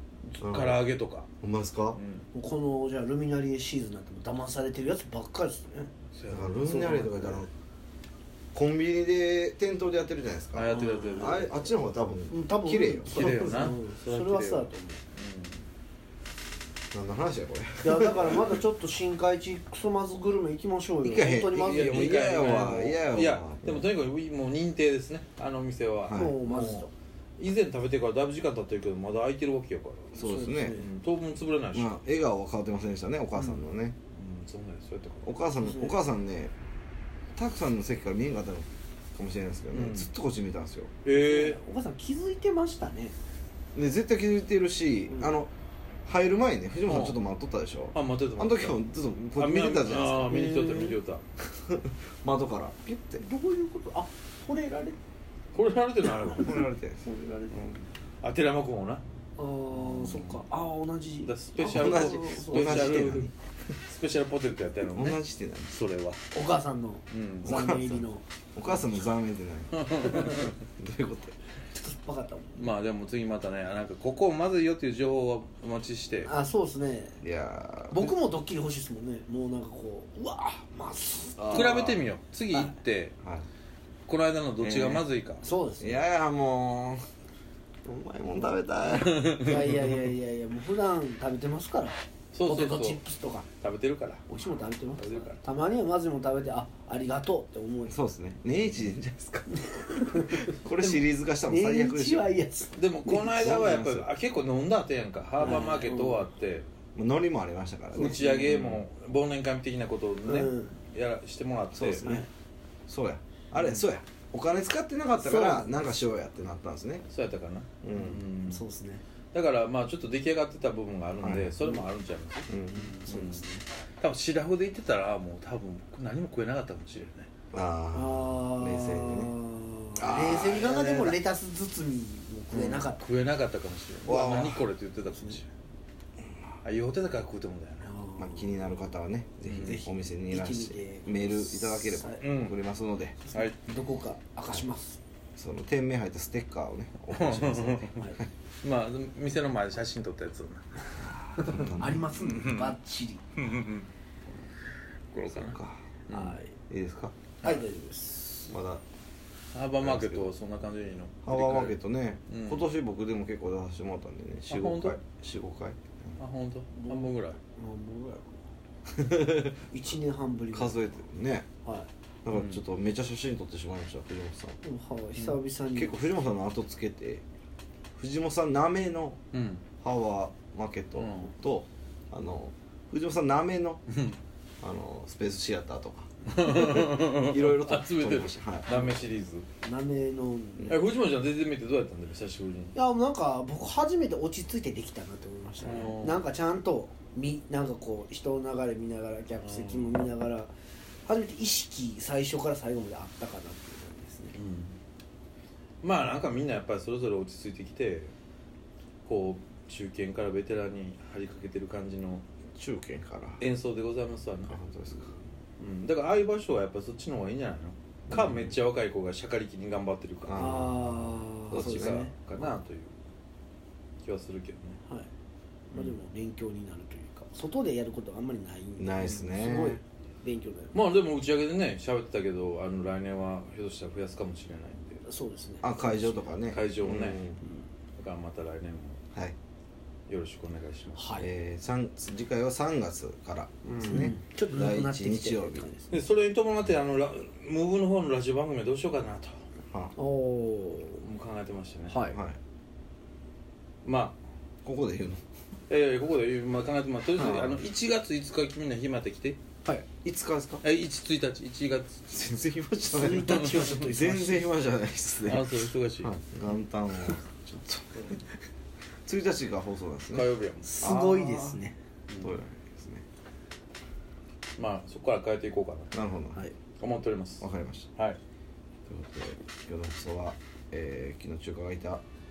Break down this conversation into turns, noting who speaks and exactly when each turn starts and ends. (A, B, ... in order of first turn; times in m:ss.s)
0:00.2-0:01.3 A
0:00.4-0:00.8 B
0:01.4-0:02.0 B
0:01.9-0:02.3 A
0:02.3-0:05.9 C
0:06.1-0:06.7 A
0:06.3-0:07.5 B
0:06.6-0:07.5 C
0:08.5-0:13.6 B
0:10.5-0:11.6 A
0:10.7-0:11.5 C
0:12.3-0:15.0 C
0:13.1-0:15.6 A
0:16.9-0:18.6 B
0:17.8-0:22.5 C
0:21.0-0:23.8 B
0:21.5-0:30.2 A
0:26.0-0:26.4 B
0:26.1-0:26.9 C
0:30.2-0:30.8 B
0:30.2-0:30.8 C
0:30.7-0:31.9 A
0:31.7-0:33.9 B
0:34.1-0:35.3 A
0:35.2-0:36.5 B
0:35.6-0:36.0 C
0:37.3-0:40.9 B
0:39.7-0:40.1 A
0:41.0-0:41.6 A
0:41.1-0:43.1 C
0:43.7-0:45.5 B
0:46.0-0:50.4 B
0:46.9-0:47.2 A
0:47.9-0:48.8 A
0:49.4-0:51.2 A
0:50.2-0:51.0 C
0:51.6-0:53.2 B
0:53.2-0:55.0 C
0:55.5-0:56.6 A
0:56.2-0:57.7 C
0:56.3-0:57.0 B
0:58.2-0:59.0 A
0:59.4-1:03.3 C
0:59.7-1:00.4 A
1:01.2-1:03.3 A
1:01.6-1:03.3 B
1:03.9-1:05.2 A
1:04.9-1:05.7 B
1:05.7-1:06.2 A
1:06.3-1:08.2 C
1:07.1-1:07.8 A
1:07.4-1:08.0 B
1:08.5-1:11.3 B
1:09.8-1:10.5 A
1:11.7-1:12.7 C
1:12.6-1:16.3 A
1:16.2-1:17.2 C
1:17.2-1:18.1 B
1:17.9-1:21.8 C
1:21.4-1:22.1 B
1:21.5-1:23.1 A
1:24.1-1:25.5 A
1:24.6-1:25.0 B
1:25.4-1:26.0 C
1:25.8-1:27.0 B
1:27.8-1:29.6 B
1:28.9-1:29.6 A
1:29.4-1:33.4 C
1:32.3-1:33.0 A
1:33.6-1:34.2 A
1:34.3-1:37.9 C
1:35.0-1:35.4 A
1:37.9-1:42.4 B
1:39.7-1:43.6 C
1:42.8-1:46.6 A
1:43.3-1:44.1 B
1:45.4-1:46.2 C
1:46.9-1:48.8 B
1:47.9-1:52.1 A
1:50.2-1:50.7 C
1:51.7-1:52.2 B
1:52.0-1:52.3 C
1:52.9-1:57.0 B
1:53.6-1:53.8 A
1:55.2-1:56.1 C
1:57.1-1:58.6 A
1:57.8-1:58.2 B
1:58.5-1:59.0 C
1:59.3-2:02.5 A
2:01.2-2:01.5 B
2:02.5-2:02.9 B
2:02.5-2:03.6 C
2:03.0-2:03.4 A
2:04.0-2:07.3 A
2:07.5-2:09.3 B
2:07.9-2:13.0 C
2:10.0-2:11.2 B
2:12.5-2:12.8 B
2:12.8-2:15.5 A
2:14.0-2:14.6 B
2:16.6-2:17.9 A
2:17.8-2:18.6 C
2:18.2-2:23.2 B
2:19.4-2:19.8 A
2:19.6-2:22.3 C
2:22.2-2:22.6 A
2:23.3-2:25.0 C
2:23.3-2:23.6 A
2:25.4-2:28.2 B
2:27.1-2:28.0 A
2:28.6-2:32.8 A
2:31.4-2:32.1 B
2:31.4-2:33.2 C
2:33.4-2:33.9 A
2:35.1-2:36.4 A
2:35.3-2:35.8 B
2:36.1-2:36.5 C
2:36.7-2:37.1 B
2:37.4-2:38.5 C
2:38.5-2:38.8 B
2:39.5-2:42.6 A
2:39.8-2:40.3 B
2:41.2-2:46.1 B
2:44.5-2:45.0 A
2:46.2-2:47.4 A
2:46.8-2:48.3 C
2:48.9-2:49.6 B
2:49.7-2:50.9 C
2:50.5-2:51.5 B
2:52.2-2:54.6 B
2:52.3-2:52.6 A
2:54.6-2:56.0 C
2:55.7-2:57.2 B
2:58.0-2:59.2 B
2:59.3-2:59.6 A
2:59.8-3:03.8 B
3:01.0-3:01.3 A
3:03.9-3:04.2 A
3:04.6-3:08.9 B
3:06.3-3:09.4 A
3:09.6-3:10.8 C
3:10.7-3:12.7 A
3:12.7-3:20.5 C
3:15.6-3:16.2 A
3:19.4-3:20.0 A
3:21.0-3:24.4 C
3:24.3-3:24.8 A
3:25.8-3:28.1 A
3:29.0-3:32.2 A
3:32.6-3:33.4 B
3:33.4-3:34.6 A
3:34.5-3:35.1 B
3:35.6-3:40.7 A
3:38.1-3:38.6 B
3:40.2-3:42.1 B
3:40.3-3:42.1 C
3:41.5-3:42.9 A
3:44.0-3:44.8 A
3:45.7-3:50.8 C
3:48.8-3:49.8 B
3:50.7-3:55.0 A
3:55.0-3:56.2 C
3:55.6-3:57.4 B
3:56.5-3:57.3 A
3:58.0-3:59.0 A
4:00.1-4:01.0 A
4:01.0-4:01.3 C
4:01.2-4:05.7 B
4:03.6-4:06.0 C
4:05.9-4:09.4 A
4:10.0-4:11.0 C
4:11.0-4:12.0 A
4:11.9-4:12.2 C
4:12.1-4:12.4 B
4:13.8-4:14.2 A
4:14.6-4:15.2 B
4:15.7-4:19.4 A
4:17.2-4:17.6 C
4:20.0-4:20.6 B
4:20.6-4:22.3 A
4:22.1-4:28.2 B
4:22.9-4:24.5 C
4:23.2-4:23.8 A
4:25.2-4:26.1 A
4:29.0-4:31.6 B
4:30.1-4:30.7 A
4:30.6-4:32.3 C
4:32.1-4:33.0 B
4:34.6-4:35.9 A
4:35.9-4:36.4 B
4:36.8-4:37.4 A
4:37.4-4:37.9 B
4:38.9-4:42.0 B